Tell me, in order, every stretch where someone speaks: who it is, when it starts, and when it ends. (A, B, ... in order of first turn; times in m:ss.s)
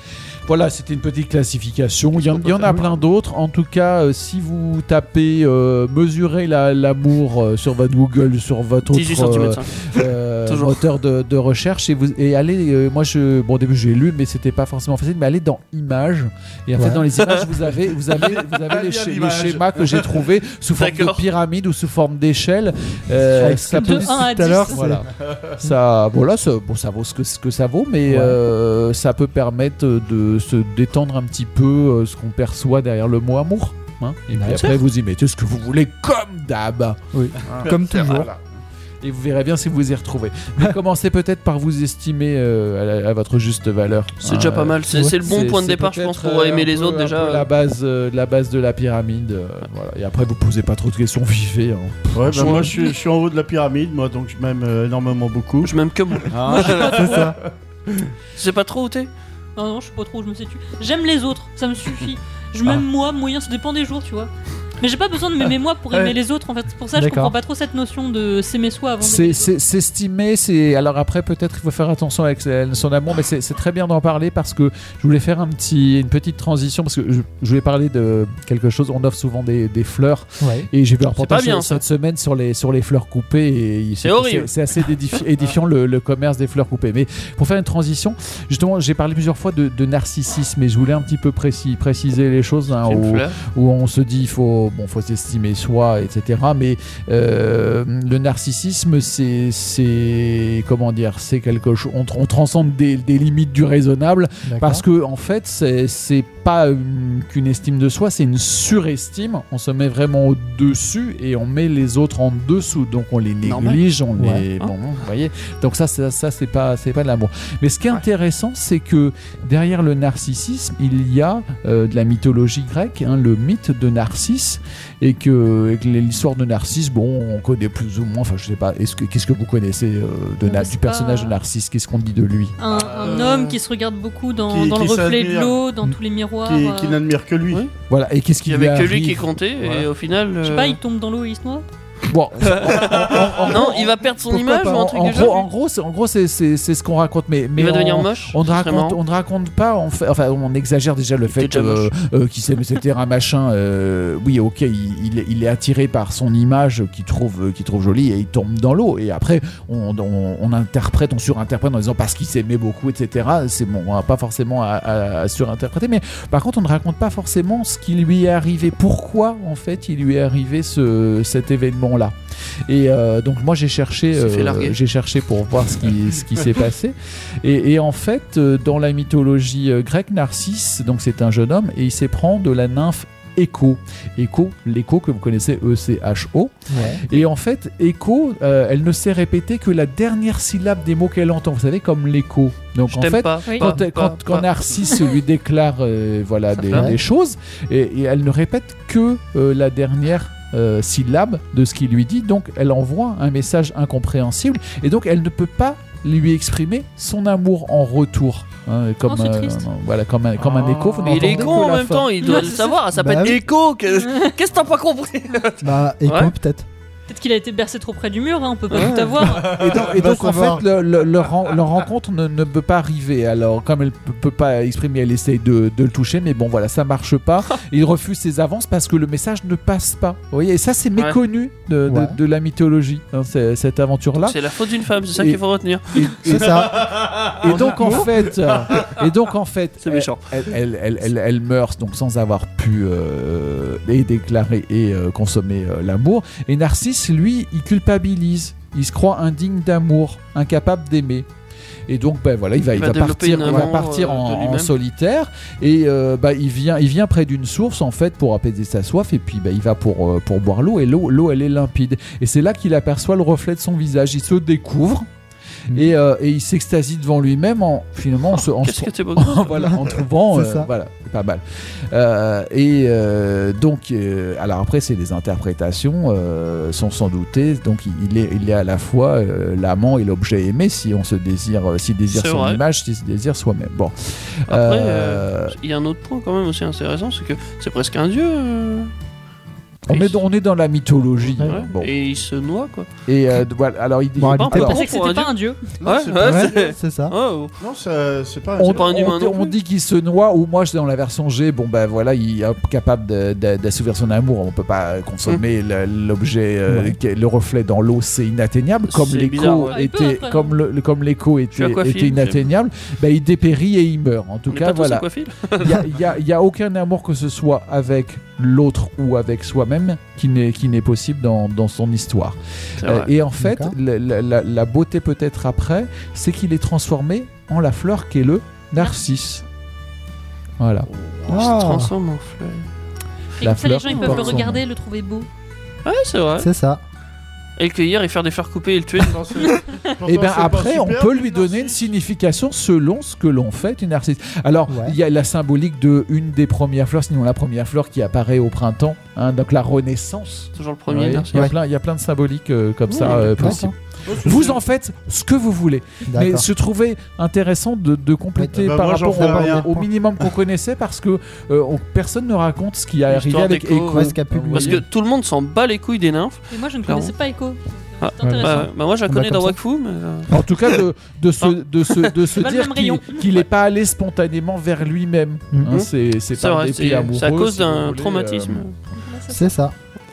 0:00.5-0:37.0 A
0:02.2-0:03.0 B
0:08.9-0:10.8 B
0:16.8-0:17.0 C
0:18.2-0:20.1 D
0:20.8-0:21.2 B
0:23.3-0:25.0 C
0:23.7-0:24.8 E
0:25.2-0:25.5 D
0:28.1-0:28.4 C
0:34.3-0:34.7 C
0:34.5-0:34.8 B
0:37.1-0:38.3 C
0:37.4-0:37.8 D
0:37.9-0:38.4 A
0:39.0-0:52.7 A
0:44.2-0:47.5 B
0:52.1-0:55.7 D
0:52.3-0:52.9 B
0:55.6-0:57.2 B
0:56.3-0:57.5 D
0:56.5-0:57.2 E
0:57.0-0:57.4 C
0:58.4-0:59.1 B
0:59.6-1:09.6 E
1:06.9-1:07.4 C
1:09.0-2:12.6 A
1:20.4-1:20.7 C
1:21.1-1:21.8 B
1:24.0-1:24.5 B
1:32.8-1:33.4 B
1:44.4-1:44.8 C
1:53.4-1:53.8 B
1:54.2-1:54.4 C
2:10.4-2:11.4 E
2:12.6-2:17.0 E
2:12.7-2:13.6 D
2:14.5-2:15.7 D
2:16.4-2:17.6 D
2:17.9-2:19.3 A
2:18.4-2:20.8 B
2:20.4-2:21.7 E
2:22.1-2:52.2 A
2:22.4-2:25.5 B
2:27.6-2:29.0 B
2:31.3-2:31.9 B
2:52.7-3:32.3 A
2:54.1-2:54.8 B
3:06.7-3:07.0 C
3:12.9-3:14.5 B
3:13.5-3:13.8 E
3:16.6-3:16.9 B
3:16.7-3:17.0 C
3:29.1-3:29.7 E
3:30.4-3:31.4 D
3:31.0-3:36.3 B
3:32.2-3:32.8 E
3:32.9-3:33.4 C
3:33.9-3:34.3 E
3:35.6-3:36.7 C
3:37.1-3:39.6 E
3:38.7-3:39.2 B
3:39.3-3:40.0 D
3:39.4-3:54.4 A
3:39.8-3:40.7 C
3:51.9-3:52.2 C
3:54.2-3:56.2 B
3:55.2-4:11.3 A
3:56.3-3:56.9 C
3:56.6-3:58.9 D
3:57.8-3:58.1 B
3:59.8-4:00.2 B
4:11.9-4:25.1 A
4:12.7-4:14.7 B
4:25.7-4:45.6 A
4:28.4-4:29.7 B
4:30.3-4:30.7 C
4:42.1-4:42.6 B
4:44.5-4:48.9 B
4:49.9-4:51.9 A
4:49.9-4:50.2 B
4:51.4-4:52.9 B
4:53.1-4:54.7 A
4:54.2-4:54.8 C
4:54.2-4:57.5 B
4:54.6-4:55.8 E
4:55.8-4:56.7 D
4:56.2-4:57.2 C
4:57.6-4:58.9 D
4:58.6-5:29.4 A
4:58.7-4:59.6 B
5:06.7-5:07.0 C
5:08.9-5:09.8 B
5:09.5-5:10.6 E
5:11.5-5:12.4 B
5:14.5-5:15.8 B
5:22.8-5:23.1 B
5:23.4-5:23.8 C
5:30.6-5:30.9 A
5:31.2-5:32.7 B
5:31.3-5:31.9 C
5:33.4-5:35.3 E
5:33.4-5:34.6 A
5:33.9-5:34.4 B
5:35.8-5:36.5 B
5:36.4-5:36.8 C
5:37.6-5:39.6 B
5:39.0-5:41.8 D
5:40.0-6:04.8 A
5:44.7-5:45.0 C
5:50.6-5:51.5 B
5:52.9-5:53.6 B
5:53.4-5:53.7 C
5:54.1-5:54.6 D
5:56.1-5:56.5 C
5:58.5-5:59.8 D
5:59.1-5:59.7 C
6:03.1-6:07.1 B
6:03.9-6:04.8 C
6:06.5-6:08.7 E
6:08.0-6:10.8 B
6:08.2-6:09.6 C
6:10.3-6:18.7 A
6:11.4-6:12.2 B
6:12.4-6:13.3 E
6:15.7-6:18.8 B
6:19.0-6:19.5 E
6:19.3-6:19.8 C